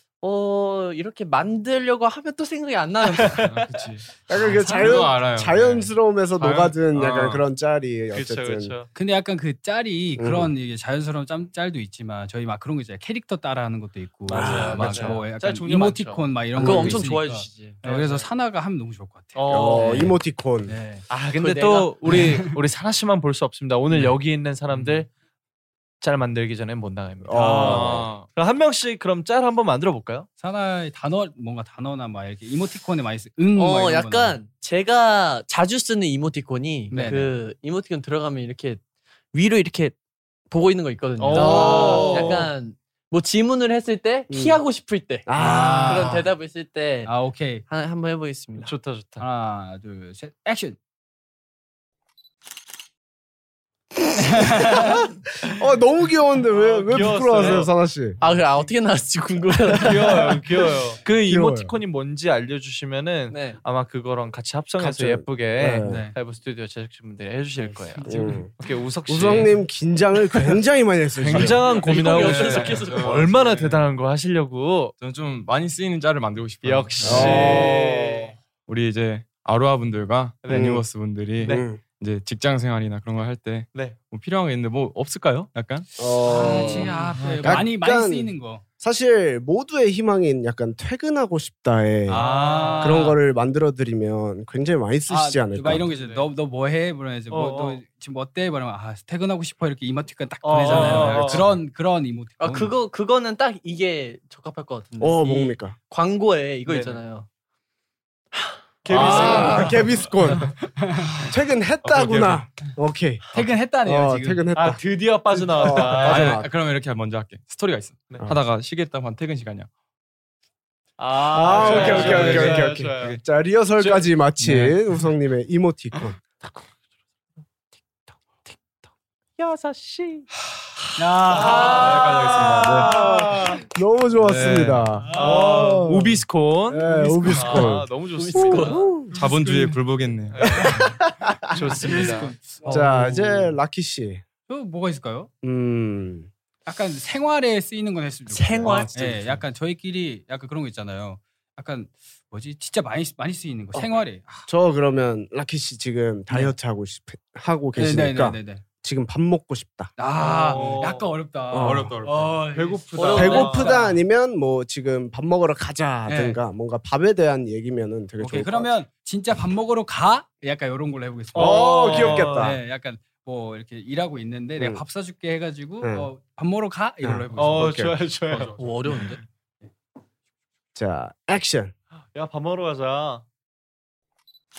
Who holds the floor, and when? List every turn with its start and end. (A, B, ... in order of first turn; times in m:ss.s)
0:00.2-0:03.6 A
0:03.4-0:07.4 B
0:04.3-0:08.7 C
0:04.5-0:04.8 D
0:08.1-0:08.9 E
0:08.9-0:20.1 D
0:10.2-0:10.5 C
0:14.3-0:16.3 E
0:14.3-0:15.2 C
0:16.6-0:17.1 C
0:16.6-0:18.2 A
0:17.8-0:18.2 E
0:19.3-0:20.1 E
0:19.5-0:20.7 C
0:20.6-0:21.0 D
0:21.1-0:25.1 E
0:21.4-0:21.9 A
0:22.1-0:22.5 D
0:23.9-0:24.2 D
0:26.0-0:30.3 E
0:27.2-0:28.1 C
0:27.3-0:28.0 D
0:27.6-0:28.3 B
0:30.4-0:34.4 D
0:33.5-0:38.8 A
0:36.9-0:37.3 D
0:39.3-0:39.9 A
0:40.5-0:47.1 A
0:41.2-0:42.5 E
0:41.3-0:42.2 D
0:41.4-0:42.1 C
0:44.3-0:44.6 C
0:45.2-0:46.2 C
0:45.4-0:46.2 D
0:47.0-0:47.6 D
0:47.7-0:48.7 A
0:48.6-0:49.2 E
0:49.2-0:50.8 D
0:54.2-0:55.0 D
0:55.4-0:58.2 C
0:56.5-0:57.7 E
0:58.2-1:00.4 A
0:59.8-1:09.5 E
1:01.2-1:01.7 C
1:03.3-1:03.6 A
1:04.8-1:06.1 C
1:05.8-1:06.1 D
1:07.6-1:08.4 D
1:08.0-1:08.5 C
1:09.0-1:11.7 C
1:11.2-1:14.9 E
1:11.3-1:13.4 A
1:11.9-1:13.8 B
1:15.0-1:17.7 B
1:16.6-1:18.3 E
1:17.0-1:18.3 C
1:17.1-1:17.5 D
1:18.6-1:25.9 B
1:20.4-1:20.7 E
1:20.5-1:20.8 C
1:21.4-1:21.8 C
1:26.0-1:35.9 C
1:26.2-1:28.6 D
1:26.9-1:27.6 B
1:32.1-1:33.2 D
1:32.2-1:33.0 E
1:35.1-1:42.7 D
1:35.7-1:36.2 E
1:37.3-1:37.8 E
1:40.4-1:41.5 E
1:40.7-1:41.2 A
1:42.4-1:47.3 A
1:45.0-1:45.8 C
1:46.6-1:47.0 E
1:48.8-1:49.9 E
1:48.9-1:50.5 C
1:48.9-1:49.8 D
1:49.0-1:49.6 A
1:50.8-1:51.1 D
1:51.2-1:54.8 C
1:51.8-1:52.5 B
1:53.3-1:54.4 D
1:54.5-1:56.4 E
1:55.4-1:56.5 C
1:56.0-1:59.7 B
2:01.0-2:03.2 E
2:01.3-2:06.2 C
2:01.6-2:03.2 B
2:01.7-2:02.6 D
2:03.8-2:04.1 E
2:04.4-2:04.7 B
2:08.5-2:08.7 E
2:09.4-2:10.3 E
2:11.0-2:12.3 D
2:11.3-2:13.6 E
2:11.4-2:12.9 B
2:12.5-2:19.1 C
2:12.9-2:13.3 D
2:14.2-2:14.8 B
2:15.0-2:15.8 D
2:15.1-2:18.9 E
2:16.8-2:17.7 D
2:18.1-2:18.9 A
2:19.1-2:20.6 B
2:19.1-2:19.8 D
2:20.3-2:20.9 E
2:20.6-2:21.5 C
2:21.5-2:22.3 E
2:21.7-2:23.6 D
2:22.6-2:24.2 C
2:24.5-2:25.3 D
2:25.4-2:26.3 C
2:26.6-2:34.5 D
2:28.3-2:28.9 A
2:28.6-2:29.4 B
2:34.5-2:39.9 C
2:36.3-2:36.5 D
2:37.8-2:38.6 D
2:40.0-2:44.0 D
2:40.2-2:41.1 E
2:41.5-2:42.0 C
2:41.5-2:42.5 B
2:42.5-2:43.7 E
2:43.0-2:43.8 A
2:43.1-2:48.7 C
2:46.1-2:46.4 D
2:48.2-2:57.7 D
2:51.3-2:52.6 E
2:51.3-2:52.6 C
2:54.6-2:54.8 C
2:55.8-2:56.1 C
2:57.0-2:58.0 C
2:57.4-2:58.6 E
2:58.6-2:59.2 A
3:00.7-3:01.7 C
3:02.1-3:03.2 E